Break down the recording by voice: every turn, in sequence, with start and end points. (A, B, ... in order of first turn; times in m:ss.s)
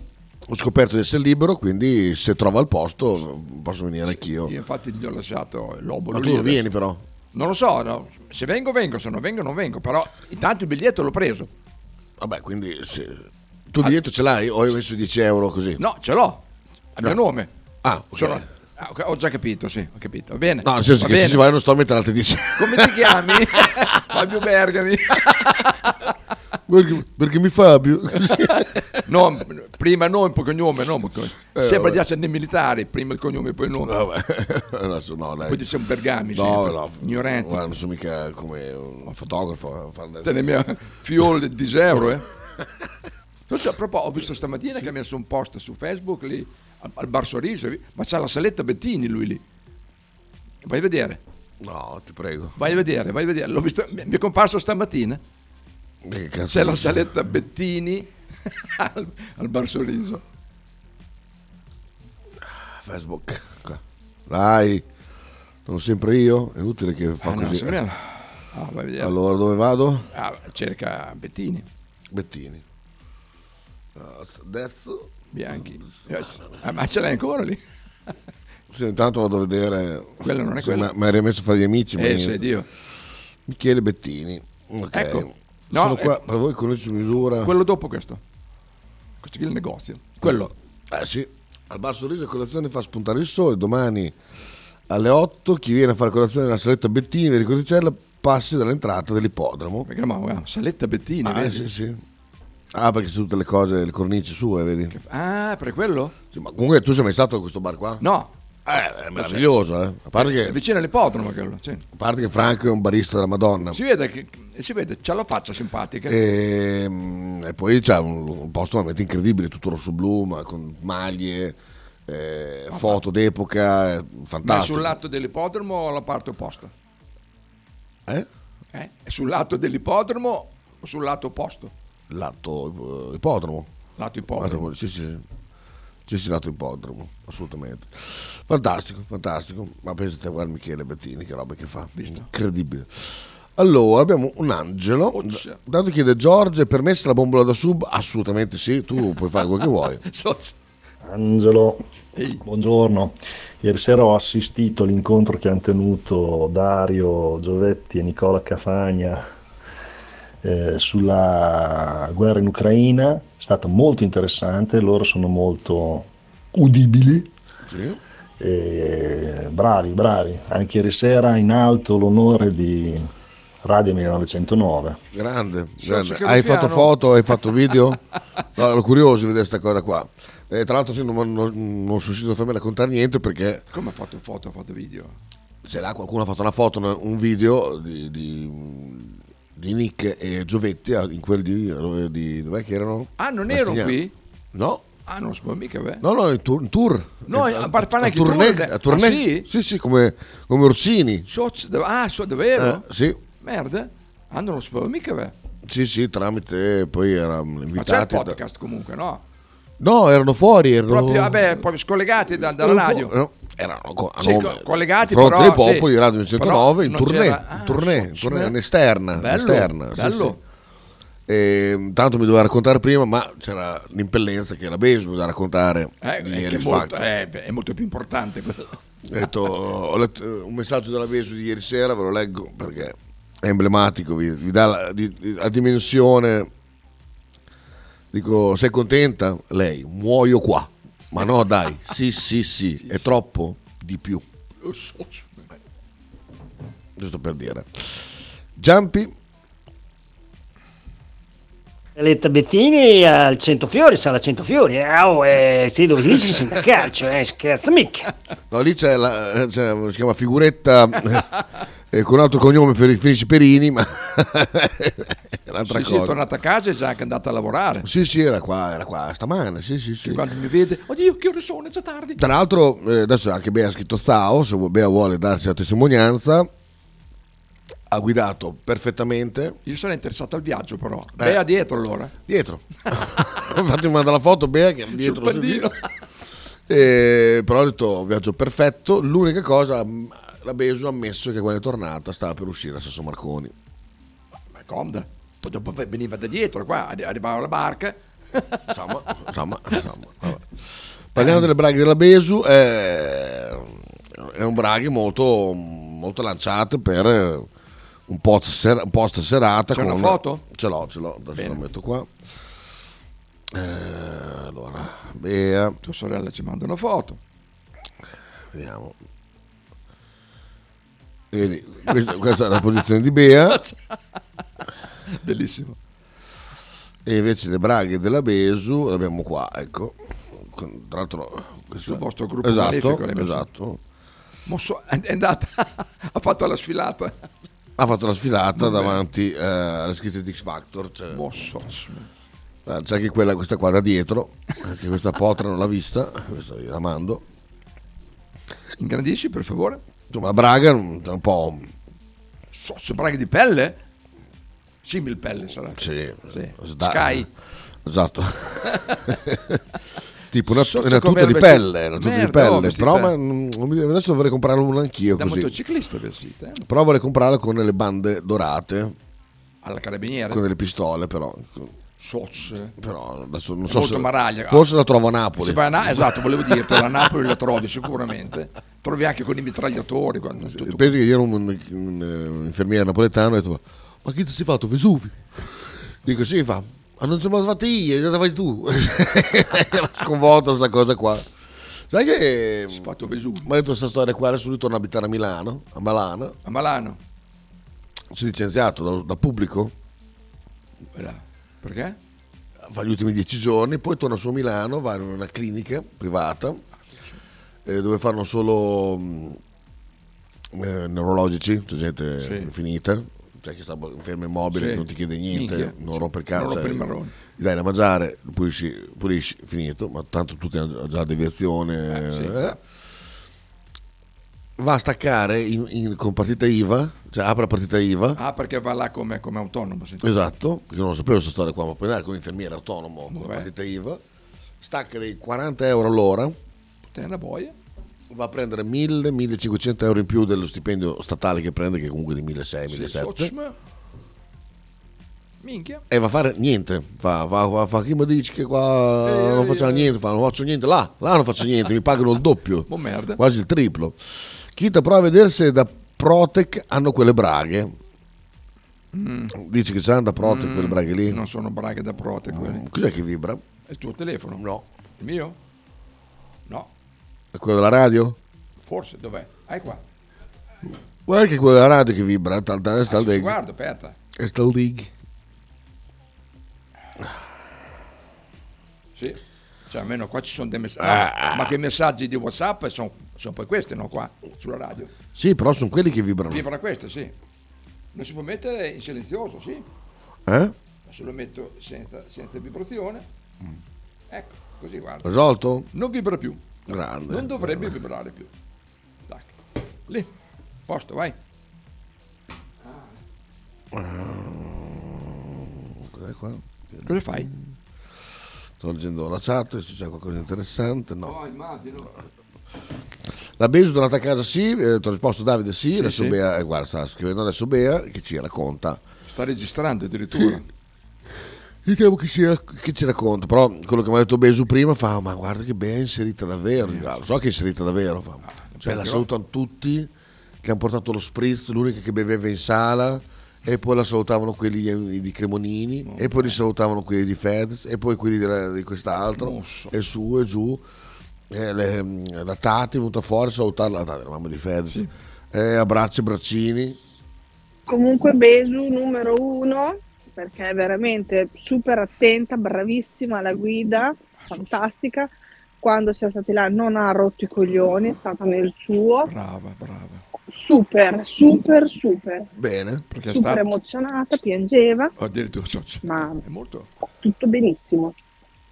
0:00.5-0:04.5 A
0:04.1-0:06.6 B
0:06.1-0:07.0 A
0:07.3-0:11.5 B
0:12.2-0:15.8 A
0:15.8-0:16.4 B
0:17.0-0:17.5 B
0:17.8-0:18.5 A
0:18.2-0:21.4 B
0:20.6-0:23.7 A
0:22.6-0:25.9 B
0:26.7-0:29.0 A
0:28.3-0:28.5 B
0:29.1-0:33.9 B
0:31.5-0:32.0 A
0:33.8-0:35.7 A
0:35.4-0:37.6 B
0:36.3-0:40.3 A
0:40.2-0:42.2 B
0:43.5-0:49.4 B
0:50.6-0:51.2 B
0:51.6-0:52.6 A
0:52.6-0:55.2 B
0:56.0-0:57.0 A
0:56.5-1:00.2 B
1:02.7-1:04.8 A
1:05.7-1:07.8 A
1:07.2-1:09.2 B
1:09.0-1:10.1 A
1:10.1-1:11.7 B
1:12.1-1:12.6 A
1:14.0-1:15.9 A
1:15.3-1:17.6 B
1:18.7-1:22.4 A
1:20.2-1:20.9 B
1:22.0-1:22.7 B
1:23.5-1:27.5 A
1:24.9-1:26.2 B
1:27.4-1:28.2 B
1:29.2-1:30.5 B
1:30.2-1:34.2 A
1:34.9-1:39.9 A
1:39.9-1:41.7 B
1:41.2-1:42.0 A
1:42.7-1:44.9 A
1:44.9-1:46.2 B
1:46.3-1:48.0 A
1:48.0-1:48.3 B
1:48.7-1:50.6 A
1:49.2-1:49.5 B
1:50.2-1:51.8 B
1:51.9-1:53.8 A
1:53.7-1:56.2 B
1:56.1-2:01.6 A
2:02.1-2:05.0 A
2:02.7-2:03.0 B
2:04.4-2:06.7 B
2:08.7-2:11.7 B
2:12.1-2:13.7 A
2:14.0-2:14.7 B
2:14.4-2:15.2 A
2:16.1-2:30.0 A
2:22.0-2:22.3 B
2:25.1-2:25.6 B
2:29.6-2:30.6 B
2:31.0-2:31.8 C
2:32.1-2:32.4 B
2:32.4-2:39.2 C
2:40.4-2:47.3 C
2:47.7-2:48.0 A
2:48.4-2:53.1 C
2:53.6-2:55.0 C
2:55.1-2:58.0 A
2:55.8-2:56.9 B
2:58.6-3:03.6 A
3:03.7-3:05.2 B
3:05.6-3:14.0 A
3:13.2-3:14.1 B
3:14.5-3:14.8 A
3:15.1-3:16.0 B
3:16.0-3:21.3 A
3:17.3-3:19.5 B
3:21.3-3:22.8 B
3:22.6-3:23.2 A
3:23.4-3:25.3 B
3:25.7-3:28.4 A
3:27.8-3:29.2 B
3:29.8-3:31.6 A
3:30.9-3:33.1 B
3:32.3-3:40.4 A
3:34.2-3:38.6 B
3:39.2-3:40.4 B
3:41.3-3:47.1 A
3:46.0-3:48.8 B
3:49.1-3:56.5 A
3:58.1-4:04.2 A
4:02.8-4:03.1 B
4:04.6-4:05.5 B
4:07.0-4:08.0 A
4:08.6-4:09.1 A
4:12.0-4:18.1 D
4:18.5-4:21.3 A
4:21.9-4:26.2 A
4:25.7-4:27.9 B
4:27.8-4:30.2 A
4:30.0-4:32.2 B
4:32.2-4:36.5 A
4:37.9-4:39.6 A
4:39.6-4:42.1 B
4:42.3-4:45.7 A
4:44.9-4:45.8 B
4:46.7-4:53.5 A
4:54.5-4:58.6 B
4:58.7-5:00.5 A
5:01.1-5:07.5 A
5:01.2-5:01.5 B
5:08.1-5:12.1 A
5:09.7-5:10.4 B
5:11.4-5:11.6 B
5:13.5-5:15.8 A
5:15.8-5:17.2 B
5:18.5-5:19.0 A
5:21.3-5:23.6 A
5:23.5-5:23.8 B
5:25.1-5:25.8 B
5:27.0-5:33.8 A
5:31.8-5:33.5 B
5:34.5-5:37.3 B
5:37.8-5:41.2 A
5:38.6-5:39.0 B
5:41.1-5:42.1 B
5:42.7-5:47.2 A
5:48.8-5:49.8 B
5:50.1-5:51.7 A
5:52.6-5:53.8 B
5:54.8-5:57.3 B
5:55.8-5:57.3 A
5:57.8-5:59.6 A
6:00.3-6:05.5 A
6:00.6-6:03.2 B
6:05.2-6:06.7 B
6:06.6-6:09.0 A
6:09.6-6:10.4 B
6:10.3-6:11.8 A
6:12.0-6:12.7 B
6:12.8-6:16.1 A
6:13.7-6:14.7 B
6:15.4-6:21.0 B
6:20.4-6:25.2 A
6:26.0-6:31.3 A
6:31.9-6:32.9 A
6:32.7-6:33.5 B
6:33.4-6:36.4 A
6:36.4-6:37.0 B
6:38.1-6:39.7 A
6:40.9-6:42.0 B
6:42.7-6:46.6 A
6:46.9-6:47.2 B
6:47.7-6:49.4 A
6:50.5-6:56.8 A
6:52.2-6:52.5 B
6:54.5-6:57.1 B
6:57.4-7:02.6 A
7:01.9-7:02.6 B
7:04.6-7:08.2 A
7:08.2-7:10.0 B
7:10.0-7:14.0 A
7:13.1-7:13.5 B
7:14.6-7:16.4 A
7:16.9-7:17.6 B
7:18.1-7:23.3 A
7:22.7-7:23.6 B
7:25.4-7:25.8 B
7:25.9-7:34.0 A
7:29.0-7:29.9 B
7:32.7-7:33.2 B
7:34.5-7:37.8 A
7:38.9-7:39.3 B
7:39.3-7:41.2 A
7:40.2-7:42.6 B
7:42.3-7:43.4 A
7:43.7-7:44.4 B
7:44.4-7:44.6 A
7:45.0-7:45.4 B
7:47.3-7:48.2 A
7:48.6-7:49.8 B
7:51.1-7:53.4 A
7:52.9-7:54.0 B
7:54.2-7:54.9 A
7:59.0-8:04.9 B
8:00.8-8:01.5 A
8:05.2-8:06.4 A
8:06.3-8:07.1 B
8:07.9-8:09.7 B
8:10.3-8:10.5 A
8:10.9-8:13.1 B
8:14.1-8:15.1 B
8:15.0-8:15.7 A
8:15.7-8:18.3 B
8:16.7-8:17.8 A
8:19.1-8:19.4 B
8:20.7-8:21.2 B
8:22.6-8:23.0 B
8:23.7-8:27.5 A
8:26.8-8:27.3 B
8:28.6-8:31.2 A
8:31.0-8:31.9 B
8:33.4-8:38.8 A
8:35.7-8:36.2 B
8:39.0-8:40.4 B
8:40.2-8:40.4 A
8:41.6-8:49.9 A
8:46.6-8:47.0 B
8:48.2-8:49.1 B
8:50.4-9:00.6 A
8:55.8-8:56.4 B
8:59.1-8:59.7 B
9:01.3-9:06.8 A
9:07.7-9:19.1 E
9:14.2-9:14.6 B
9:19.1-9:20.0 B
9:20.3-9:22.3 E
9:22.4-9:22.8 A
9:22.9-9:23.4 B
9:23.1-9:24.9 E
9:25.0-9:26.7 B
9:25.8-9:26.2 E
9:27.0-9:27.9 E